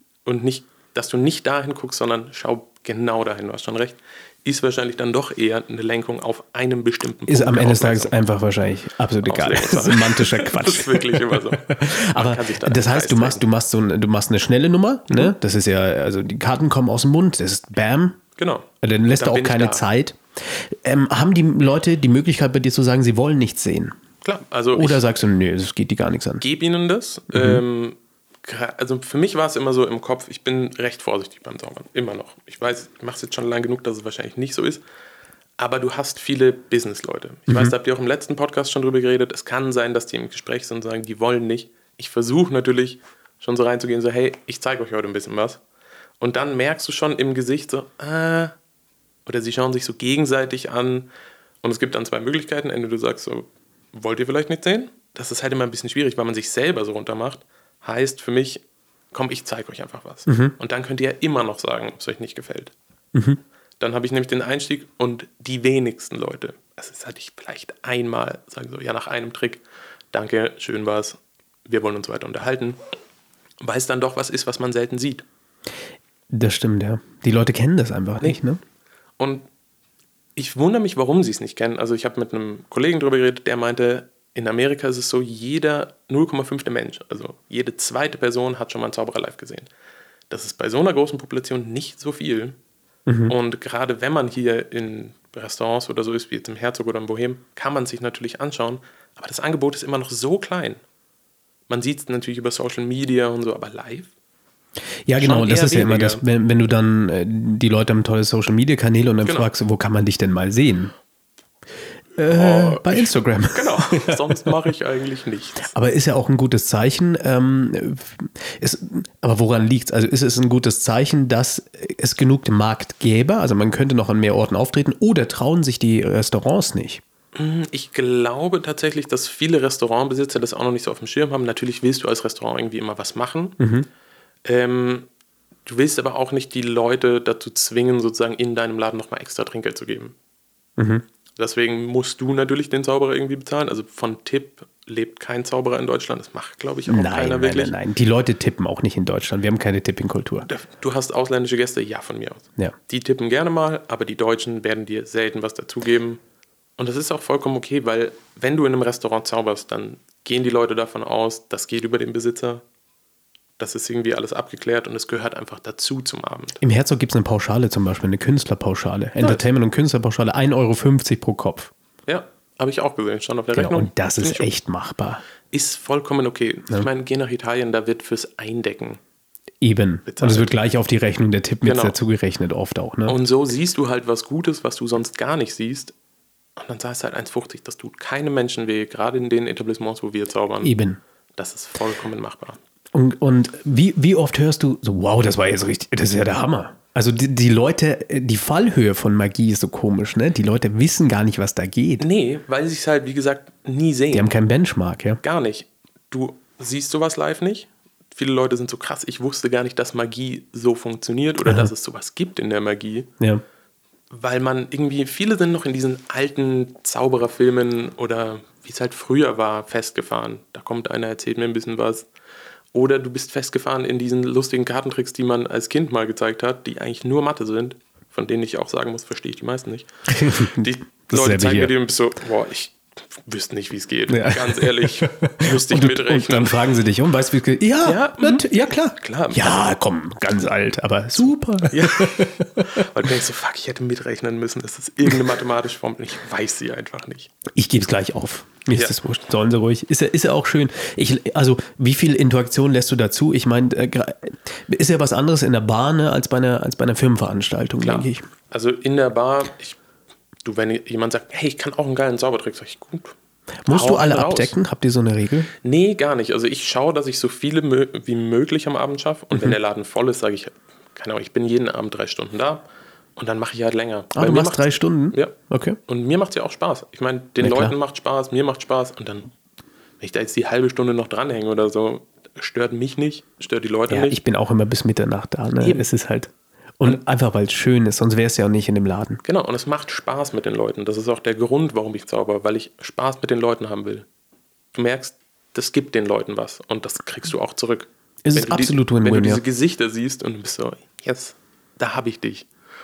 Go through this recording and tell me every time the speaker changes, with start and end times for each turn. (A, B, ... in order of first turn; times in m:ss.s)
0:00.3-0:08.2 A
0:07.3-0:18.2 B
0:09.2-0:13.4 A
0:18.4-0:19.8 A
0:18.8-0:23.9 B
0:24.2-0:25.0 A
0:24.7-0:26.4 B
0:26.4-0:34.8 A
0:27.3-0:27.6 B
0:35.6-0:45.6 A
0:46.2-0:48.5 A
0:49.3-0:51.1 A
0:51.6-1:02.7 A
1:00.3-1:00.5 B
1:03.1-1:03.4 B
1:03.8-1:12.8 A
1:13.6-1:15.2 A
1:16.3-1:18.6 B
1:19.2-1:19.5 A
1:20.4-1:29.7 A
1:30.3-1:32.6 A
1:33.1-1:33.4 B
1:33.3-1:40.8 A
1:41.7-1:44.1 A
1:45.1-1:50.9 B
1:45.2-1:46.2 A
1:49.2-1:49.5 A
1:52.2-1:54.5 B
1:52.3-1:55.7 A
1:55.7-2:07.0 B
2:07.4-2:13.6 A
2:13.6-2:13.9 B
2:14.4-2:15.1 A
2:15.7-2:20.2 A
2:20.8-2:21.0 B
2:21.4-2:27.7 A
2:26.9-2:30.5 B
2:30.4-2:36.2 A
2:36.8-2:42.6 A
2:43.6-2:46.6 A
2:46.6-2:51.7 B
2:52.1-2:54.5 A
2:53.6-2:55.2 B
2:55.5-2:59.0 A
2:59.6-3:03.2 B
3:00.1-3:00.5 A
3:01.6-3:02.0 A
3:03.1-3:05.9 A
3:06.6-3:10.8 A
3:10.6-3:11.0 B
3:11.4-3:12.6 A
3:12.9-3:22.0 B
3:22.0-3:24.3 A
3:24.1-3:25.2 B
3:25.2-3:33.1 A
3:31.4-3:31.7 B
3:34.1-3:42.1 A
3:42.7-3:56.7 A
3:50.1-3:51.7 B
3:54.1-4:02.9 B
3:57.8-3:59.7 A
4:01.2-4:07.3 A
4:07.5-4:18.2 B
4:17.8-4:19.8 A
4:20.4-4:23.2 A
4:23.6-4:25.5 B
4:23.7-4:24.6 A
4:25.6-4:32.6 A
4:29.3-4:29.6 B
4:33.2-4:35.4 A
4:34.1-4:35.8 B
4:35.9-4:39.3 A
4:37.4-4:37.8 B
4:40.0-4:44.2 A
4:43.9-4:49.2 B
4:45.6-4:45.9 A
4:49.2-4:54.1 A
4:54.7-5:02.5 A
4:58.2-4:59.4 B